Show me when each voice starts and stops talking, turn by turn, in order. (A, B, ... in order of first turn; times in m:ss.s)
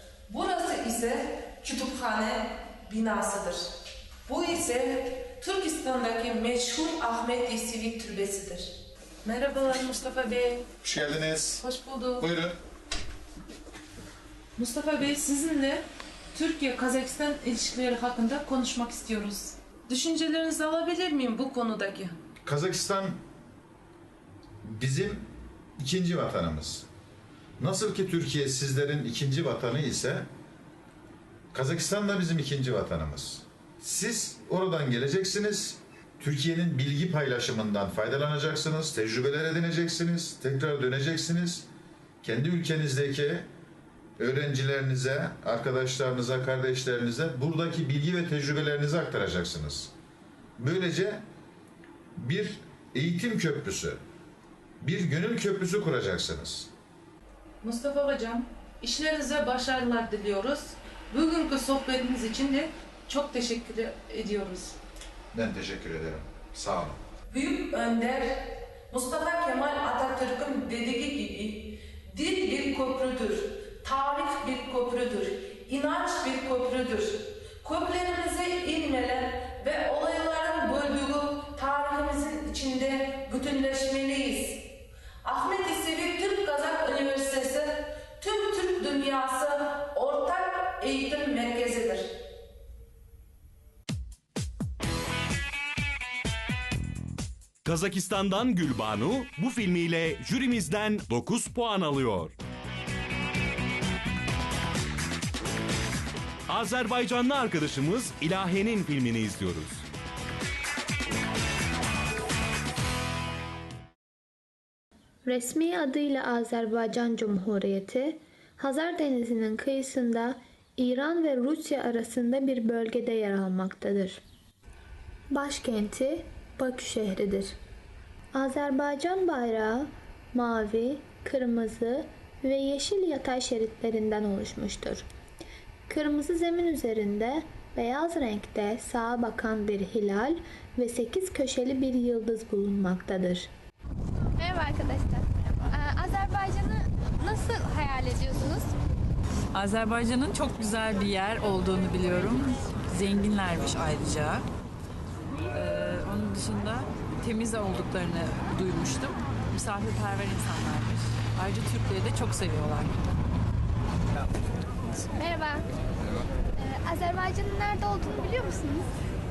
0:00.3-0:03.7 A
0:04.2-0:08.7 A
0:09.2-0:10.6 A
0:10.8-0:11.6 B
0:11.6-0:12.2 A
0:12.2-0:12.6 B
0:14.6-0:15.8 A
0:16.3-0:22.1 A
0:22.4-0:23.2 B
0:24.6-0:25.3 B
0:25.8-0:26.9 B
0:27.6-0:30.3 B
0:31.5-0:41.7 B
0:42.2-0:43.5 B
0:44.2-0:49.9 B
0:50.6-0:51.2 B
0:52.2-0:54.0 B
0:54.8-0:56.7 B
0:57.6-1:04.8 A
1:05.3-1:07.0 B
1:07.3-1:24.6 A
1:25.2-1:32.1 A
1:37.6-1:42.3 C
1:46.5-1:49.8 C
1:55.2-2:04.2 D
2:05.3-2:07.5 D
2:08.3-2:15.0 D
2:15.9-2:23.5 D
2:24.4-2:28.7 E
2:29.5-2:34.4 F
2:35.5-2:43.0 F
2:45.2-2:45.6 E
2:46.6-2:48.9 E